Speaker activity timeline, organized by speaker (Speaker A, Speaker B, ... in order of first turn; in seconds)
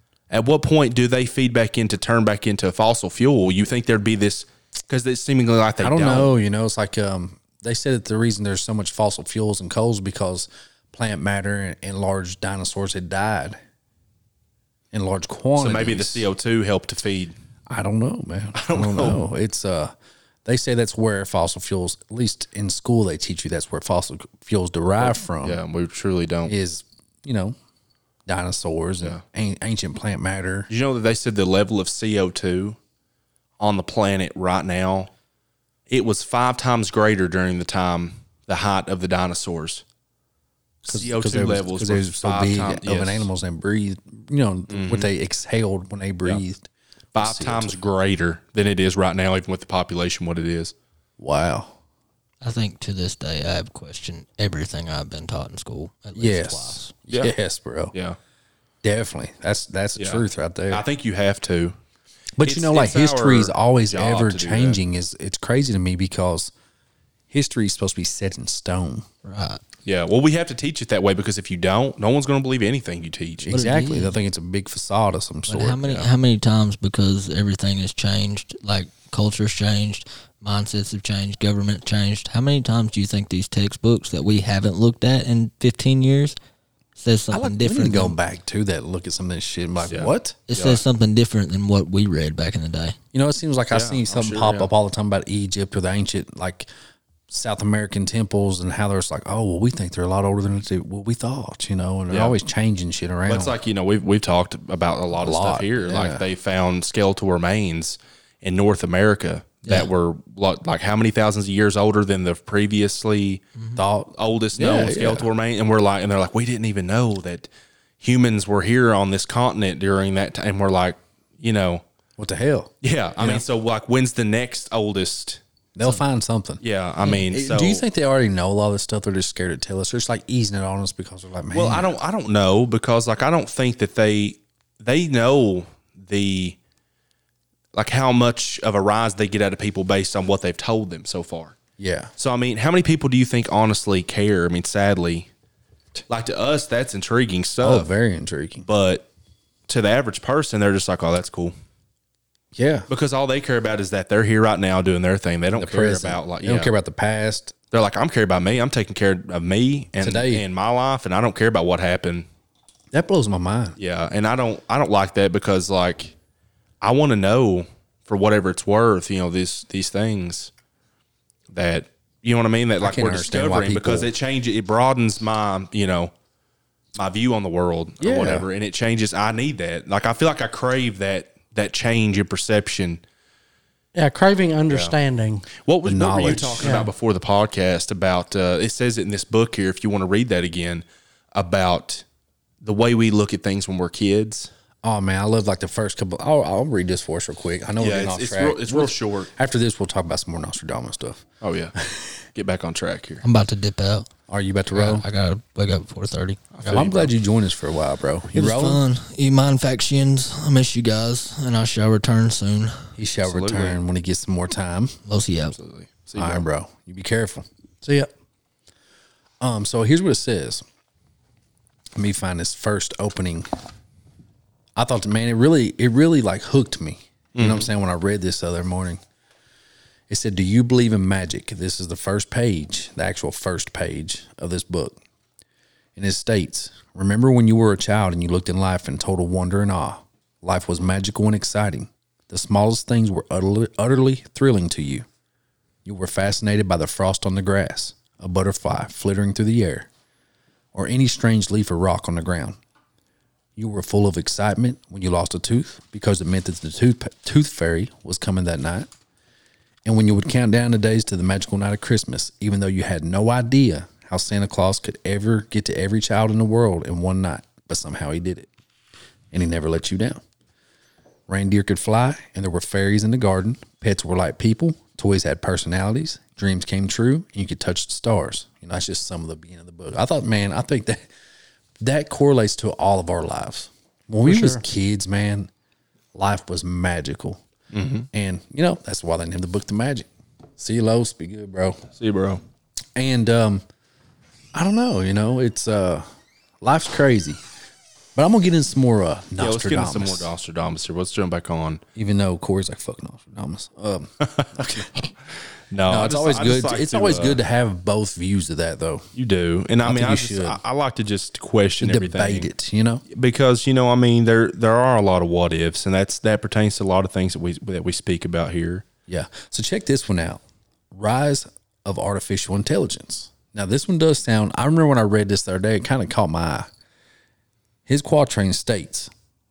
Speaker A: 0.3-6.3, 15.6-17.3, 18.5-19.2, 25.0-26.5, 30.7-32.8, 33.6-35.1, 35.9-39.8, 40.9-43.3, 44.7-45.1, 47.1-50.7, 60.0-61.8, 62.4-64.8, 69.8-73.6, 89.9-90.8, 93.7-94.7, 102.1-102.3, 103.3-113.4, 114.1-117.5, 118.0-121.8, 122.8-125.4, 126.6-127.8, 131.5-136.6, 137.7-141.6, 142.2-145.3, 146.1-147.9, 148.7-149.1, 149.7-151.5, 152.9-156.7, 157.7-162.3, 163.8-166.1, 166.8-170.5, 171.5-176.1, 176.9-183.0, 184.7-184.9, 185.6-192.0, 192.6-194.5, 197.8-199.3, 201.4-201.7, 202.3-203.2, 206.5-207.1, 213.2-213.8, 215.5-216.4, 227.3-227.7, 287.7-288.1, 292.0-292.4, 299.4-301.8, 304.4-304.6, 305.7-307.4, 309.1-312.5, 313.1-318.8
Speaker B: 5.8-13.6, 14.9-16.3, 17.7-19.9, 20.4-25.6, 26.4-27.6, 28.2-30.7, 40.8-47.7, 51.2-51.7, 56.1-57.9, 58.8-60.8, 62.4-66.5, 67.3-69.1, 73.4-76.1, 87.3-90.4, 93.1-96.7, 97.3-103.5, 105.2-106.2, 113.8-115.3, 122.2-123.4, 125.8-131.9, 141.8-142.1, 147.6-148.7, 152.5-152.9, 155.5-157.5, 160.0-160.4, 162.9-163.8, 172.8-174.1, 178.0-178.4, 185.8-186.9, 194.8-201.2, 201.8-202.1, 204.3-205.0, 206.7-208.8, 213.0-214.9, 216.1-217.4, 219.4-220.6, 221.9-223.5, 224.8-229.0, 230.1-235.0, 235.9-245.1, 245.8-249.9, 250.7-252.6, 253.6-258.9, 259.9-268.5, 269.3-270.2, 271.3-281.1, 281.8-285.5, 286.1-287.4, 288.1-290.1, 290.6-291.8, 292.9-293.6, 294.5-296.1, 296.6-297.4, 298.1-300.3, 301.9-304.9, 305.9-309.1, 309.8-310.6, 311.8-313.0, 319.1-326.7, 327.9-329.1
Speaker C: 52.4-56.9, 69.2-69.6, 73.5-74.2, 75.5-86.3, 87.0-88.2, 90.5-93.0, 203.2-204.1, 204.7-206.8, 208.3-212.8, 215.1-215.6
Speaker D: 183.9-185.5, 186.6-186.9, 217.8-218.1, 284.2-284.6